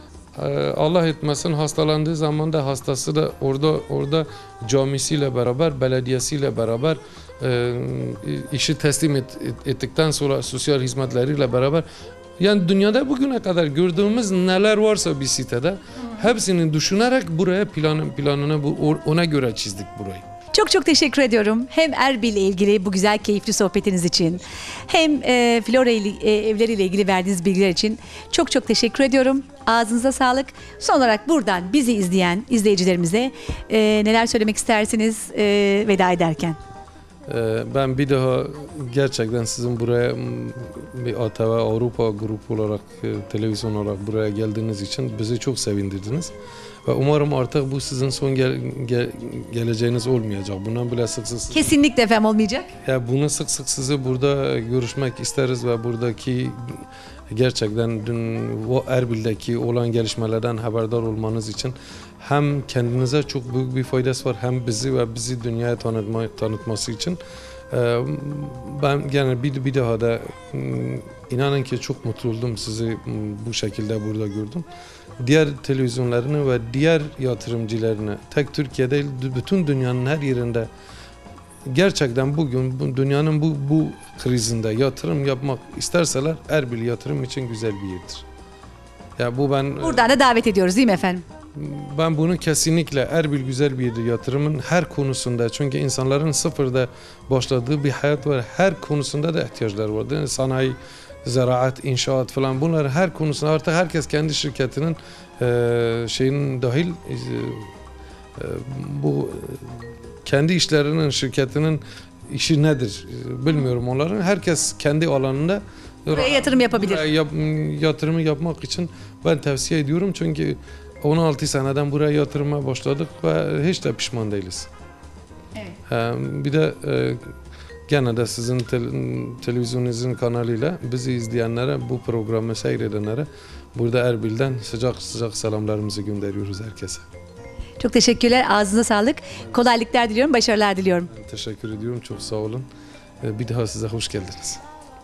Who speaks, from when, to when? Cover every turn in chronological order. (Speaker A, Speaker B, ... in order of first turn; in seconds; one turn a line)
Speaker A: 0.3-11.8
Speaker A: 12.4-20.2
Speaker B: 20.5-36.6
Speaker A: 37.3-46.3
Speaker A: 46.9-51.8
Speaker B: 51.5-52.7
Speaker A: 52.8-67.2
Speaker A: 67.7-74.6
Speaker A: 75.2-80.7
Speaker A: 81.7-88.2
Speaker A: 89.2-90.1
Speaker B: 89.8-91.2
Speaker A: 91.5-107.7
Speaker A: 108.4-124.7
Speaker B: 116.1-117.0
Speaker A: 125.9-127.2
Speaker A: 127.9-137.1
Speaker B: 137.8-141.1
Speaker A: 141.1-142.7
Speaker A: 143.2-144.6